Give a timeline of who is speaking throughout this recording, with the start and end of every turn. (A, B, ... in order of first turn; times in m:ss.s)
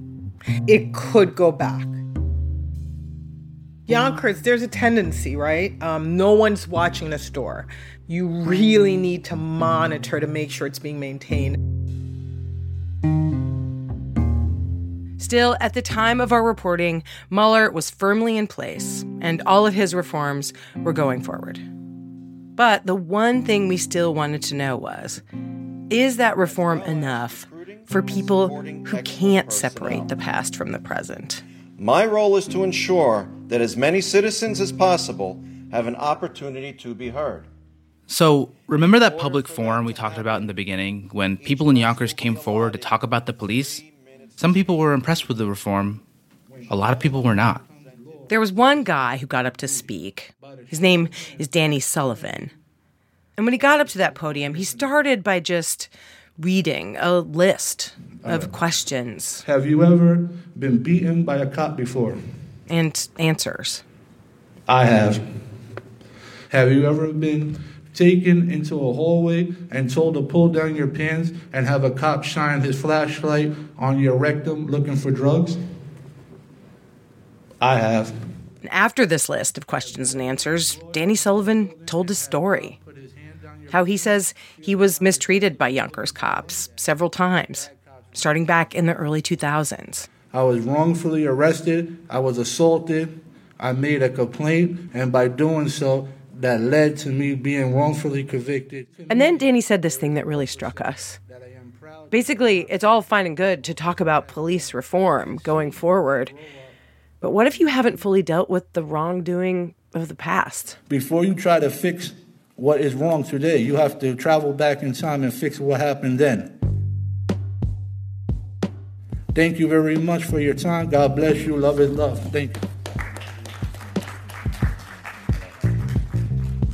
0:00.7-0:02.0 A
0:03.9-0:11.6 A
0:15.2-0:21.6 B
0:22.6-0:25.2 B
0:25.9-0:31.4 B
0:26.4-0:30.2 C
0:31.8-0:37.5 C
0:38.1-0:43.8 D
0:38.9-0:40.0 E
0:41.4-0:43.0 C
0:43.6-0:44.3 C
0:44.4-0:46.0 D
0:46.5-0:52.5 E
0:46.7-0:47.6 D
0:48.3-0:52.5 B
0:53.4-0:59.4 B
0:53.6-0:55.0 E
0:58.1-0:58.5 E
0:59.4-1:02.2 E
1:02.7-1:03.8 B
1:04.7-1:05.3 E
1:06.5-1:15.6 E
1:17.6-1:18.2 E
1:18.6-1:22.8 B
1:19.8-1:28.1 E
1:23.7-1:30.1 B
1:30.3-1:46.7 E
1:39.1-1:41.2 B
1:42.1-1:46.4 B
1:47.2-1:50.8 B
1:50.9-1:56.6 E
1:59.3-2:02.5 E